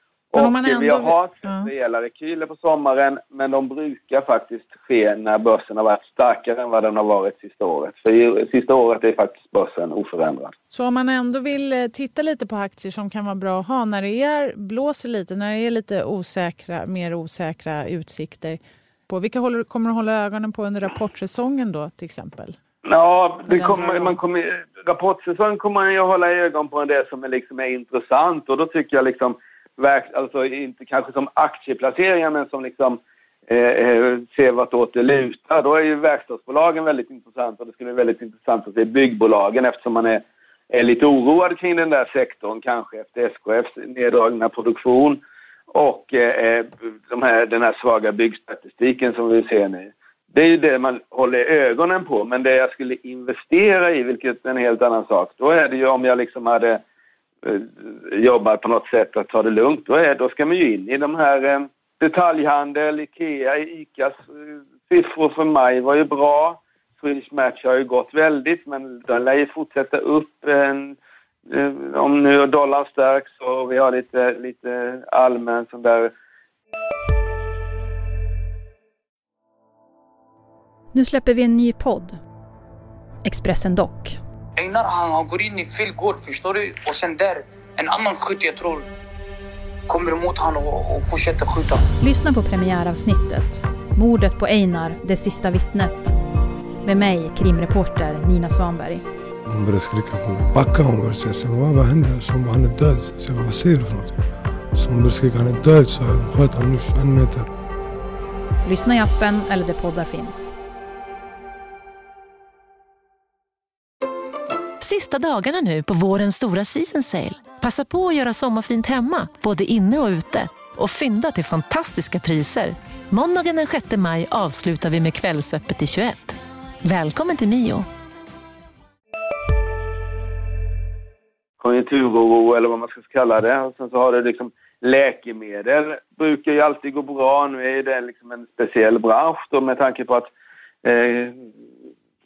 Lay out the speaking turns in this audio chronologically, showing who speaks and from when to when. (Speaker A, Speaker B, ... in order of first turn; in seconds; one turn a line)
Speaker A: 0.3-10.6
Speaker B: 0.4-1.7
Speaker B: 10.7-22.6
Speaker A: 22.9-45.2
Speaker B: 23.5-24.2
Speaker A: 45.7-56.8
Speaker A: 57.4-71.0
Speaker A: 71.5-76.1
Speaker C: 80.9-82.2
Speaker C: 83.2-84.2
Speaker D: 84.6-88.9
Speaker D: 89.9-91.9
Speaker C: 92.0-96.2
Speaker C: 96.8-99.0
Speaker E: 99.5-104.2
Speaker E: 104.7-107.5
Speaker C: 108.7-110.5
Speaker F: 114.8-127.9
Speaker A: 131.6-140.3
Speaker A: 140.8-141.5